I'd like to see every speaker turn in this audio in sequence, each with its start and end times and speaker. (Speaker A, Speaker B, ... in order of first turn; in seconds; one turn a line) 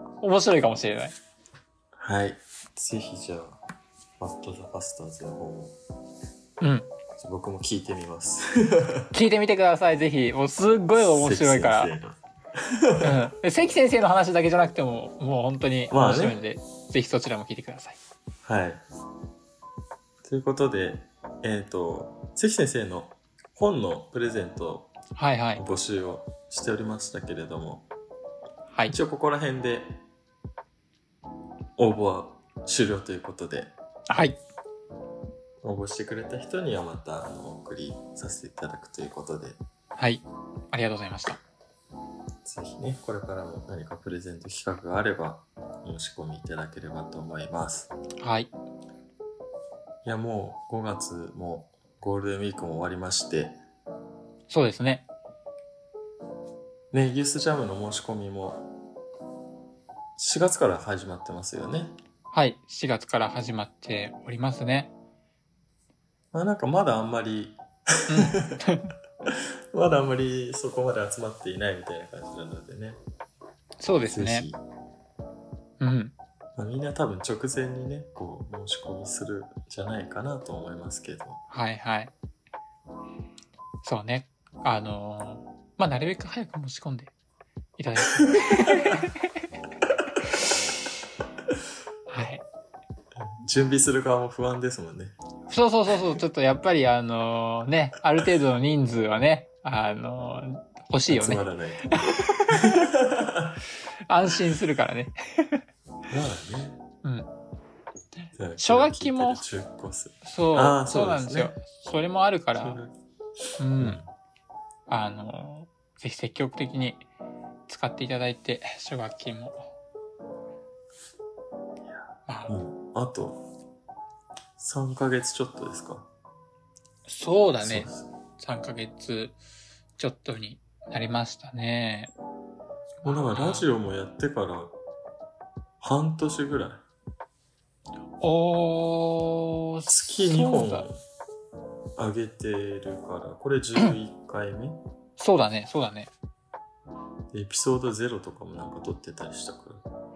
Speaker A: 0.2-1.1
Speaker B: 2.0-3.6
Speaker B: 4.2-5.8
Speaker A: 6.6-6.9
Speaker B: 7.2-9.1
Speaker A: 9.1-11.9
Speaker B: 10.9-13.2
Speaker A: 13.0-18.0
Speaker B: 15.9-16.4
Speaker B: 18.4-18.8
Speaker B: 20.2-24.9
Speaker A: 25.1-25.6
Speaker B: 25.6-27.9
Speaker B: 28.9-30.0
Speaker B: 31.8-33.7
Speaker A: 34.1-34.4
Speaker B: 35.6-39.6
Speaker A: 40.0-41.4
Speaker B: 42.4-47.9
Speaker A: 48.2-48.5
Speaker B: 50.0-53.6
Speaker A: 54.5-55.0
Speaker B: 56.9-58.7
Speaker B: 60.2-62.0
Speaker A: 62.3-64.9
Speaker B: 66.3-68.6
Speaker A: 68.1-68.9
Speaker B: 69.2-73.0
Speaker A: 73.8-74.5
Speaker B: 74.0-74.6
Speaker A: 75.8-76.1
Speaker B: 76.5-81.4
Speaker A: 81.5-82.1
Speaker A: 83.8-87.1
Speaker A: 87.8-89.3
Speaker A: 90.3-90.6
Speaker A: 92.1-92.4
Speaker B: 93.2-95.1
Speaker A: 95.5-102.8
Speaker B: 101.1-102.0
Speaker B: 102.5-103.6
Speaker A: 104.1-105.6
Speaker B: 106.1-106.8
Speaker A: 107.0-107.3
Speaker B: 108.3-111.5
Speaker A: 108.6-109.4
Speaker A: 110.2-112.8
Speaker B: 112.5-112.9
Speaker A: 113.6-114.0
Speaker B: 113.8-114.1
Speaker A: 114.9-117.0
Speaker A: 117.7-119.7
Speaker B: 121.9-123.4
Speaker A: 122.3-122.5
Speaker B: 124.6-126.1
Speaker A: 127.1-129.4
Speaker B: 127.6-128.1
Speaker A: 130.0-132.1
Speaker A: 133.0-133.7
Speaker B: 133.0-134.7
Speaker B: 135.8-136.8
Speaker A: 138.2-140.9
Speaker B: 139.9-141.0
Speaker B: 141.9-144.8
Speaker A: 145.2-146.1
Speaker B: 147.3-149.8